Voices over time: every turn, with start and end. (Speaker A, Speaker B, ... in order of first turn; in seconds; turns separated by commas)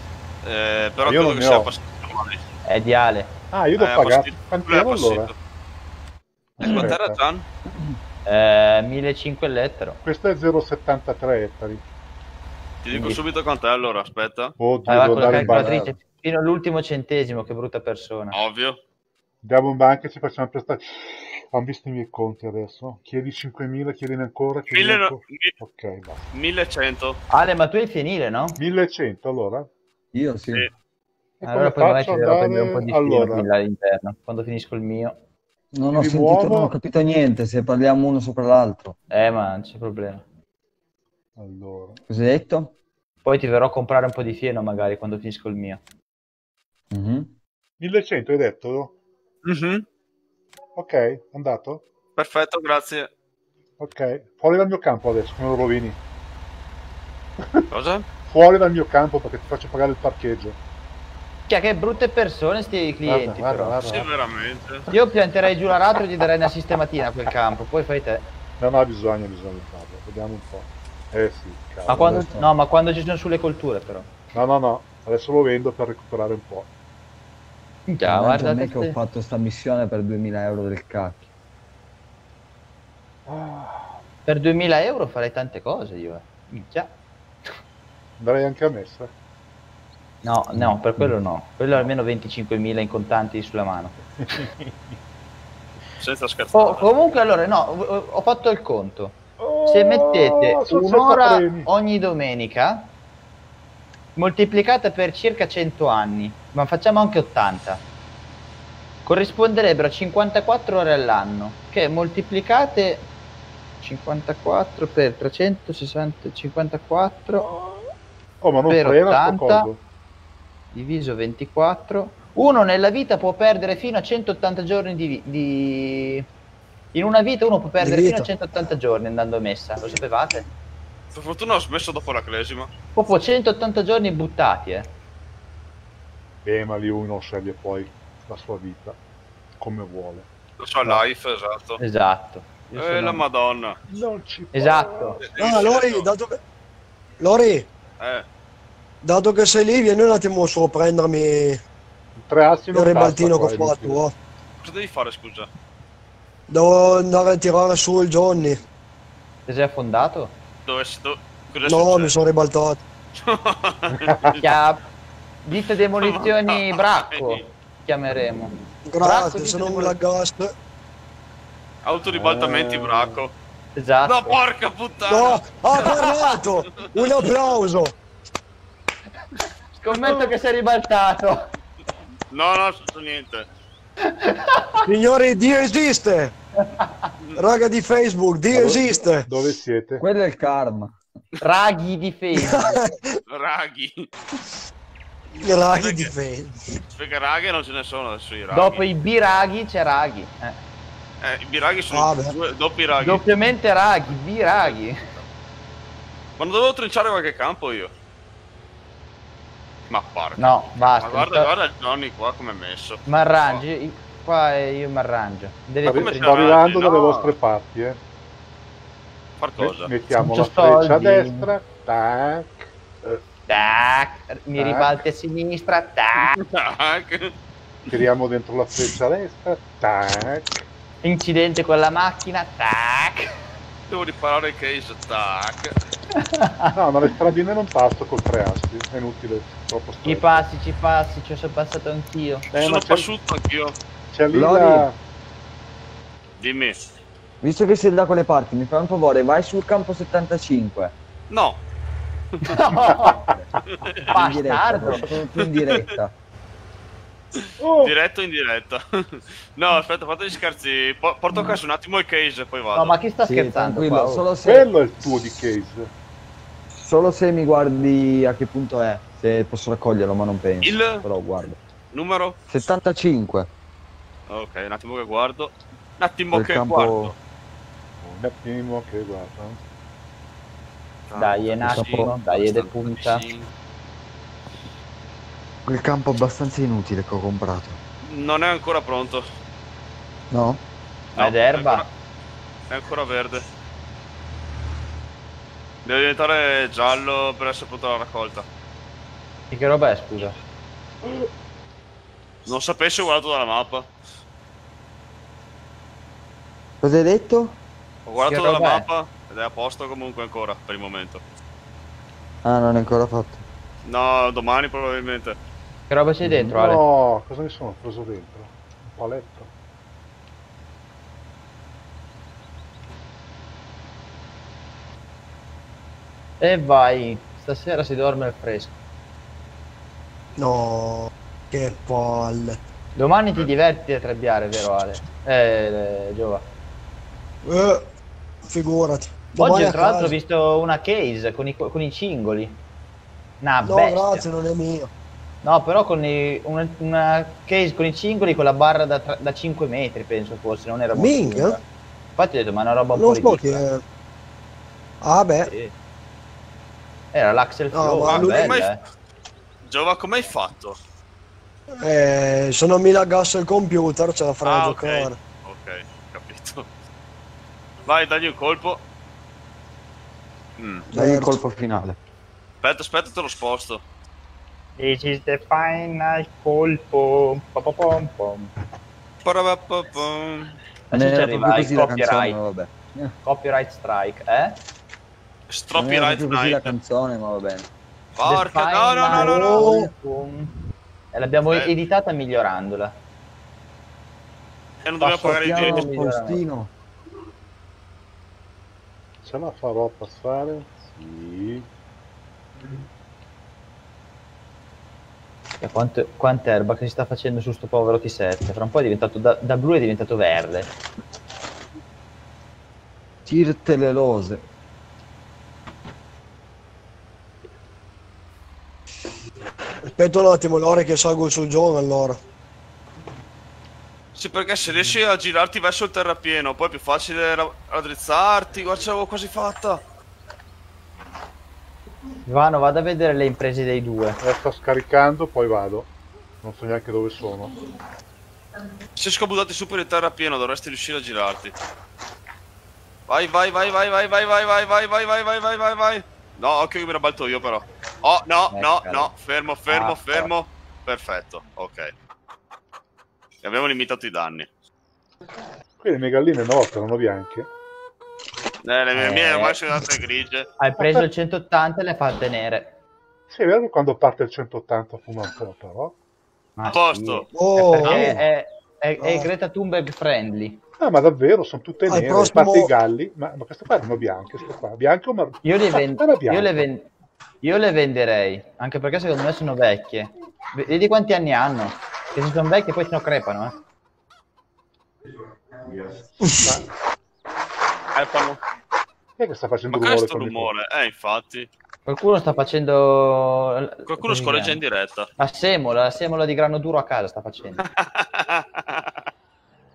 Speaker A: 0.4-2.4, Speaker B: 1.0-1.7, Speaker C: 2.7-3.3, Speaker B: 3.5-5.3, Speaker A: 3.8-5.3, Speaker B: 6.6-7.2, Speaker A: 6.6-7.5, Speaker C: 8.3-10.0, Speaker B: 10.0-11.8, Speaker A: 12.8-14.6, Speaker C: 12.9-13.2, Speaker B: 14.6-15.8, Speaker C: 14.9-18.4, Speaker D: 15.1-16.0, Speaker A: 18.3-18.8, Speaker B: 19.4-26.3, Speaker A: 24.7-25.6, Speaker A: 26.3-27.2, Speaker C: 27.3-28.6, Speaker B: 28.6-29.7, Speaker D: 30.1-30.7, Speaker B: 31.4-33.5, Speaker C: 31.4-35.2, Speaker D: 35.7-39.0, Speaker B: 35.9-36.7, Speaker C: 39.1-40.2, Speaker B: 41.4-42.0, Speaker D: 42.1-42.7, Speaker C: 43.2-45.8, Speaker D: 46.9-47.3, Speaker B: 47.8-49.0, Speaker A: 49.5-49.9, Speaker B: 50.8-51.8, Speaker A: 52.2-53.1, Speaker B: 53.8-56.0, Speaker A: 57.7-58.1, Speaker B: 58.3-60.6, Speaker C: 61.5-63.8, Speaker B: 63.1-64.1, Speaker A: 63.9-64.9, Speaker C: 64.9-68.2, Speaker B: 68.6-72.3, Speaker C: 71.9-74.1, Speaker D: 71.9-72.5, Speaker B: 74.3-76.7, Speaker C: 77.9-79.0, Speaker D: 78.0-81.3, Speaker B: 83.3-84.0, Speaker C: 84.3-86.9, Speaker B: 88.2-89.1, Speaker C: 90.2-94.0, Speaker B: 94.3-94.7, Speaker A: 96.0-96.9, Speaker C: 96.5-102.9, Speaker B: 99.4-101.7, Speaker C: 104.2-107.8, Speaker C: 109.0-113.1, Speaker C: 113.8-117.8, Speaker B: 118.4-119.8, Speaker C: 118.7-119.7, Speaker C: 120.7-126.2, Speaker C: 126.9-130.4, Speaker E: 127.8-128.3, Speaker A: 131.1-132.7, Speaker C: 133.0-134.9, Speaker B: 136.4-139.0, Speaker B: 139.6-140.3, Speaker A: 140.6-141.8, Speaker C: 141.8-143.2, Speaker A: 142.7-143.8, Speaker B: 143.9-145.4, Speaker C: 144.5-145.2, Speaker A: 145.3-146.1, Speaker E: 145.4-146.4, Speaker E: 147.2-147.7, Speaker A: 148.0-148.3, Speaker E: 149.0-151.6, Speaker B: 152.2-154.0, Speaker E: 152.7-154.1, Speaker A: 154.6-155.5, Speaker E: 156.5-158.6, Speaker C: 159.5-160.3, Speaker A: 160.7-162.1, Speaker E: 161.6-162.8, Speaker A: 163.2-164.4, Speaker B: 164.1-164.3, Speaker C: 164.4-164.8, Speaker C: 165.4-170.0, Speaker A: 166.0-167.4, Speaker E: 168.9-170.5, Speaker A: 171.8-173.3, Speaker B: 172.1-173.2, Speaker C: 173.8-174.4, Speaker A: 174.1-176.1, Speaker E: 175.1-177.9, Speaker C: 176.0-176.3, Speaker C: 179.8-181.4, Speaker A: 182.3-183.4, Speaker C: 184.0-184.8, Speaker E: 184.8-186.3, Speaker C: 186.7-187.1, Speaker E: 187.4-189.3, Speaker B: 188.5-190.0, Speaker D: 190.0-190.9, Speaker C: 191.4-192.8, Speaker E: 192.3-193.2, Speaker A: 193.3-194.1, Speaker E: 195.4-196.8, Speaker A: 195.7-196.1, Speaker A: 196.9-198.8, Speaker C: 198.5-200.6, Speaker A: 201.2-203.2, Speaker E: 201.9-202.4, Speaker C: 203.0-205.0, Speaker A: 206.4-207.9, Speaker A: 209.9-213.6, Speaker C: 210.4-211.5, Speaker C: 213.1-216.5, Speaker B: 215.8-218.0, Speaker A: 215.9-217.3, Speaker A: 219.4-219.9, Speaker B: 219.6-223.2, Speaker C: 220.2-221.5, Speaker C: 223.5-226.4, Speaker B: 224.6-225.0, Speaker A: 226.3-227.3, Speaker B: 227.9-230.7, Speaker C: 231.0-233.3, Speaker A: 233.9-235.8, Speaker C: 236.2-236.7, Speaker B: 236.7-240.5, Speaker C: 240.0-242.5, Speaker B: 242.5-243.1, Speaker A: 242.5-243.8, Speaker B: 244.1-245.0, Speaker D: 244.3-244.9, Speaker A: 246.4-246.8, Speaker D: 247.4-250.9, Speaker A: 251.3-251.6, Speaker C: 252.5-253.2, Speaker B: 252.5-253.2, Speaker D: 252.8-253.5, Speaker D: 254.1-256.1, Speaker C: 254.1-255.1, Speaker A: 257.4-263.0, Speaker B: 257.6-257.9, Speaker C: 262.8-264.3, Speaker D: 263.3-264.7, Speaker B: 264.4-265.9, Speaker D: 266.8-271.6, Speaker A: 270.6-271.1, Speaker A: 271.9-272.4, Speaker D: 272.5-273.5, Speaker A: 274.3-277.1, Speaker D: 276.3-277.1, Speaker B: 278.0-279.6, Speaker A: 281.1-283.5, Speaker C: 281.2-283.2, Speaker D: 281.6-282.1, Speaker D: 285.6-287.8, Speaker A: 288.0-289.2, Speaker D: 290.3-290.6, Speaker A: 291.1-291.9, Speaker C: 291.2-291.9, Speaker A: 292.7-293.4, Speaker A: 295.9-298.4, Speaker C: 299.5-300.4, Speaker A: 302.5-303.9, Speaker D: 306.8-307.6, Speaker A: 308.1-311.2, Speaker C: 308.3-308.9, Speaker D: 312.4-313.4, Speaker A: 313.9-315.4, Speaker C: 315.9-316.8, Speaker D: 316.2-316.6, Speaker B: 316.6-319.5, Speaker C: 326.4-328.8, Speaker E: 330.4-332.6, Speaker C: 333.0-336.4, Speaker E: 337.4-337.9, Speaker E: 338.5-340.2, Speaker C: 339.4-342.6, Speaker C: 343.4-344.3, Speaker E: 343.6-344.9, Speaker C: 345.4-351.6, Speaker E: 350.9-351.6, Speaker C: 352.2-353.6, Speaker E: 352.9-353.8, Speaker E: 355.0-355.5, Speaker C: 355.5-355.7, Speaker C: 357.1-358.8, Speaker E: 357.7-358.6, Speaker A: 358.1-358.7, Speaker A: 359.7-360.8, Speaker E: 361.8-365.2, Speaker A: 364.4-366.7, Speaker A: 367.9-368.8, Speaker A: 370.6-370.8, Speaker E: 370.9-371.4, Speaker D: 370.9-372.0, Speaker A: 372.6-373.8, Speaker C: 374.8-378.5, Speaker A: 379.2-380.6, Speaker C: 380.9-382.4, Speaker D: 380.9-383.1, Speaker C: 383.2-384.6, Speaker A: 385.5-386.7, Speaker D: 385.8-387.7, Speaker A: 388.2-389.8, Speaker C: 388.2-390.6, Speaker E: 389.1-389.9, Speaker C: 391.1-393.0, Speaker A: 394.9-395.9, Speaker D: 395.0-396.7, Speaker C: 395.3-396.4, Speaker B: 399.2-401.7, Speaker C: 405.6-410.7, Speaker D: 413.3-414.4, Speaker E: 419.9-422.2, Speaker A: 424.1-429.8, Speaker C: 432.3-434.2, Speaker B: 434.2-435.9, Speaker B: 436.4-437.5, Speaker A: 439.0-441.6, Speaker A: 443.1-451.9, Speaker C: 448.5-449.1, Speaker C: 449.7-450.3, Speaker A: 453.4-454.5, Speaker B: 455.8-457.5, Speaker A: 458.6-460.5, Speaker C: 458.9-459.6, Speaker C: 460.6-462.8, Speaker B: 460.8-461.1, Speaker B: 463.3-465.9, Speaker C: 466.6-470.6, Speaker A: 466.7-467.3, Speaker E: 467.3-468.2, Speaker A: 467.9-468.1, Speaker E: 469.0-469.3, Speaker B: 470.8-476.6, Speaker E: 471.9-472.7, Speaker C: 475.4-476.9, Speaker C: 477.4-483.5, Speaker E: 486.2-486.5, Speaker B: 486.3-486.7, Speaker A: 487.9-488.4, Speaker B: 489.2-490.5, Speaker A: 489.7-491.5, Speaker C: 491.9-494.6, Speaker A: 493.9-495.1, Speaker C: 495.2-497.6, Speaker A: 497.7-498.9